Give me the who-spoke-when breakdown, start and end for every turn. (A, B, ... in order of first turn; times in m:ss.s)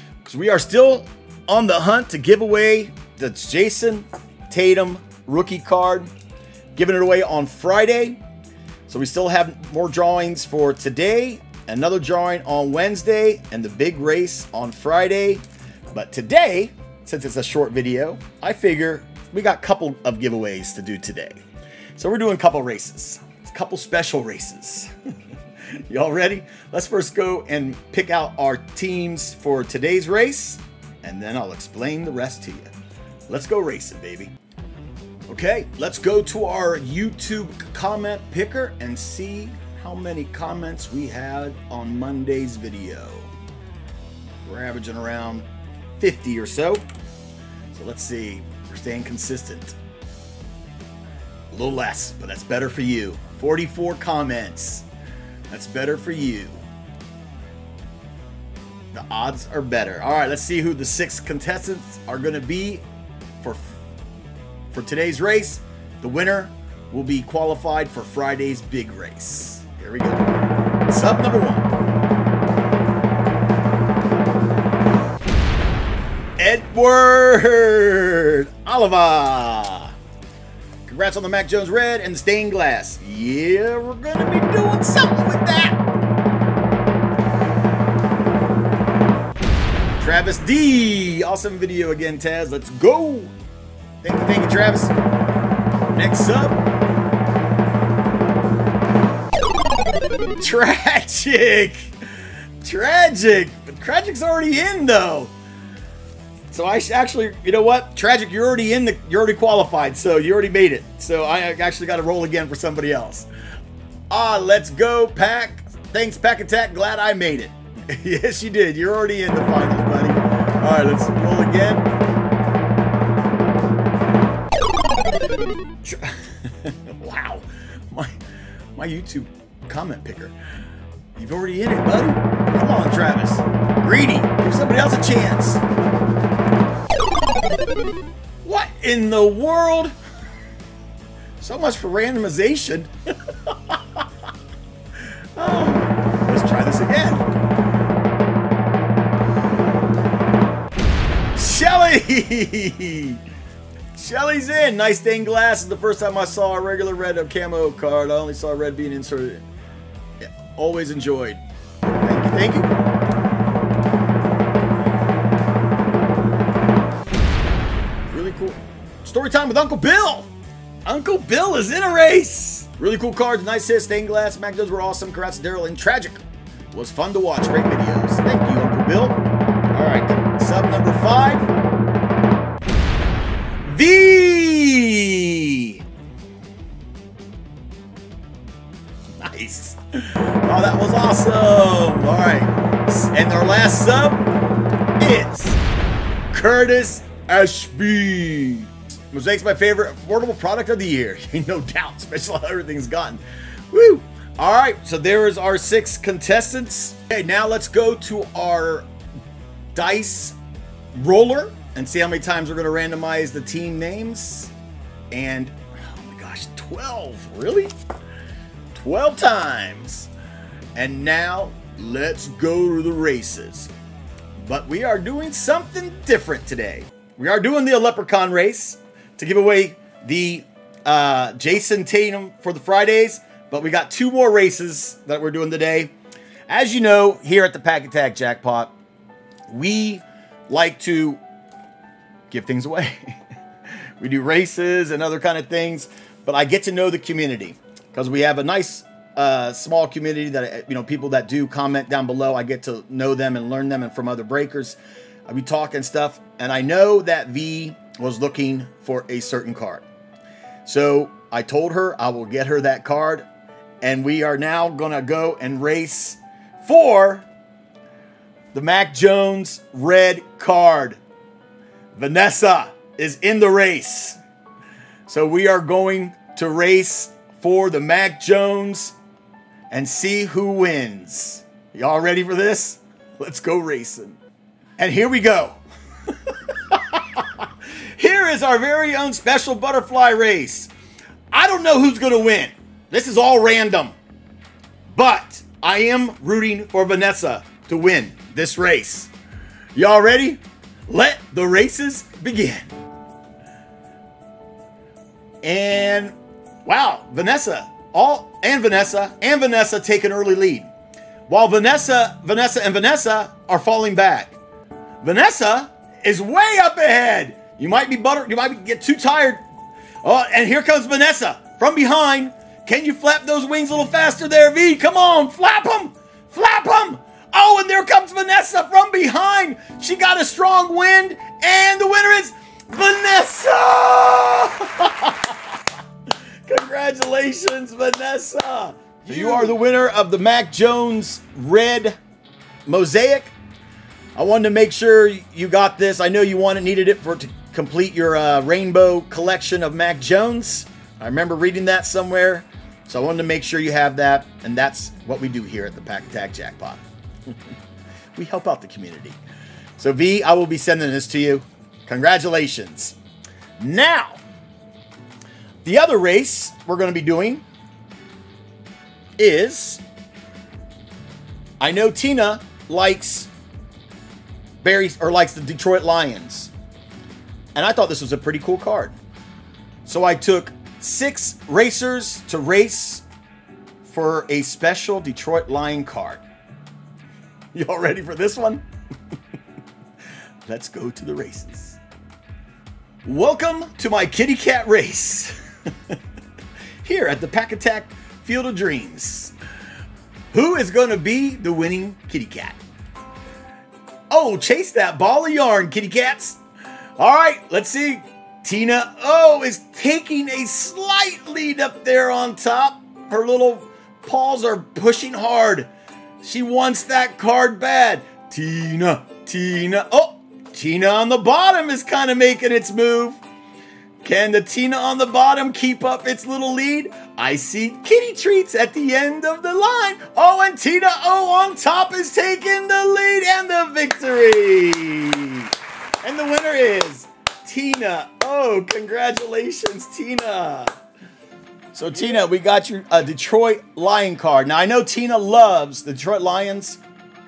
0:00.2-0:06.1 A
0:06.8-0:08.2 A
0:08.9-0:21.4 A
0:22.0-0:24.9 A
0:25.7-0:32.7 A
0:33.3-0:34.3 A
0:35.3-0:43.3 A
0:44.4-0:45.5 A
0:46.0-0:46.8 A
0:47.7-0:49.8 A
0:51.5-0:54.9 A
0:55.5-0:56.6 A
0:58.9-1:02.8 A
1:03.4-1:03.8 A
1:04.7-1:10.2 A
1:10.9-1:11.7 A
1:16.4-1:20.0 A
1:20.9-1:25.8 A
1:30.0-1:33.3 A
1:34.0-1:35.0 A
1:35.9-1:36.6 A
1:40.4-1:45.3 A
1:46.5-1:53.3 A
1:54.1-2:01.9 A
2:05.8-2:08.2 A
2:08.8-2:10.4 A
2:11.2-2:15.6 A
2:18.4-2:19.9 A
2:21.4-2:24.1 A
2:25.0-2:27.3 A
2:31.4-2:33.2 A
2:33.9-2:39.4 A
2:40.2-2:41.4 A
2:42.0-2:42.7 A
2:48.1-2:50.3 A
2:50.9-2:59.2 A
2:59.7-3:01.5 A
3:03.6-3:05.8 A
3:09.2-3:14.2 A
3:15.0-3:15.6 A
3:16.3-3:28.9 A
3:29.7-3:30.4 A
3:30.9-3:34.5 A
3:35.1-3:37.7 A
3:38.7-3:40.1 A
3:40.8-3:43.7 A
3:44.4-3:55.9 A
3:56.5-3:58.8 A
3:59.5-4:01.2 A
4:02.3-4:03.2 A
4:04.0-4:19.9 A
4:20.6-4:23.3 A
4:23.8-4:27.3 A
4:28.5-4:31.0 A
4:32.0-4:34.2 A
4:35.1-4:39.0 A
4:39.7-4:44.2 A
4:44.8-4:50.7 A
4:51.3-4:54.0 A
4:54.9-4:59.1 A
4:59.8-5:02.7 A
5:05.4-5:10.7 A
5:11.3-5:14.4 A
5:15.0-5:19.4 A
5:20.0-5:35.4 A
5:36.5-5:42.0 A
5:42.7-5:43.4 A
5:44.2-5:56.8 A
5:58.2-5:59.2 A
5:59.8-6:03.0 A
6:03.6-6:04.2 A
6:05.6-6:07.4 A
6:09.2-6:09.8 A
6:11.6-6:13.3 A
6:14.6-6:16.5 A
6:17.6-6:19.0 A
6:19.8-6:23.0 A
6:23.8-6:26.2 A
6:27.5-6:28.6 A
6:30.4-6:31.8 A
6:33.0-6:35.4 A
6:36.8-6:39.4 A
6:40.3-6:42.6 A
6:44.1-6:46.4 A
6:47.0-6:55.7 A
6:56.2-7:03.2 A
7:04.0-7:15.5 A
7:16.0-7:20.7 A
7:21.7-7:26.8 A